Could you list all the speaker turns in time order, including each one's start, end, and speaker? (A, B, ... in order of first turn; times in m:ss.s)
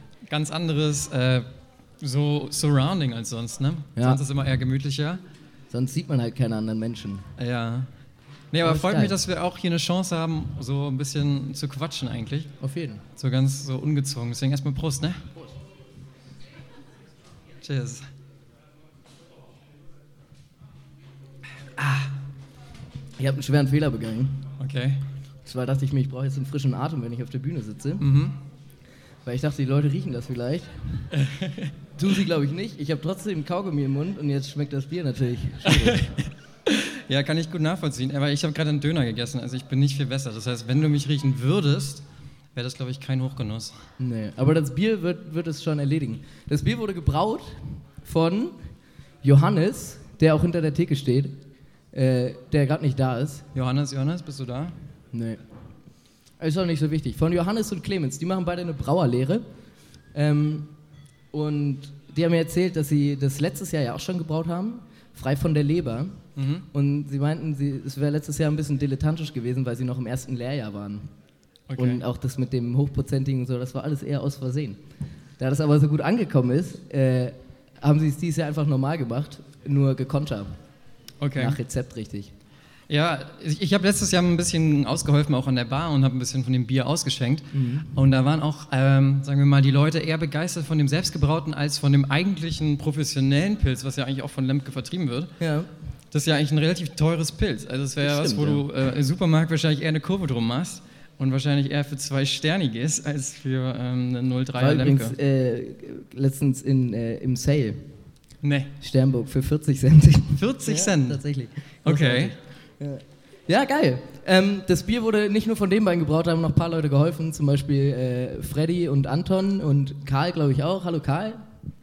0:00.3-0:01.5 A
0:02.0-0:05.2 A
0:05.7-0:07.3 B
0:07.4-0:07.9 A
0:08.5-0:12.5 A
0:08.6-0:09.2 B
0:12.6-0:13.0 B
0:13.2-0:15.2 A
0:17.6-0:18.0 A
0:21.8-0:22.1 A
0:23.2-0:24.5 B
0:24.6-0:25.0 A
0:25.4-0:28.0 B
0:28.0-0:28.4 A
0:29.2-0:30.7 B
0:31.2-0:31.7 A
0:32.0-0:36.1 B
0:35.7-0:42.0 A
0:42.6-0:43.8 A
0:44.0-0:48.6 B
0:49.2-0:51.4 B
0:51.9-0:53.4 B
0:53.5-0:54.7 A
0:55.1-0:55.4 B
0:56.4-0:59.4 B
1:00.1-1:00.7 B
1:01.3-1:06.2 B
1:06.4-1:06.7 A
1:06.7-1:11.1 B
1:11.7-1:12.0 A
1:11.8-1:14.8 B
1:15.4-1:20.6 B
1:21.2-1:21.6 A
1:21.4-1:22.3 B
1:22.9-1:35.3 A
1:27.5-1:27.9 B
1:35.4-1:35.7 B
1:36.1-1:45.1 A
1:38.0-1:38.6 B
1:44.6-1:47.9 B
1:48.4-1:48.7 A
1:48.8-2:01.4 B
1:50.4-1:51.2 A
1:51.8-1:52.3 A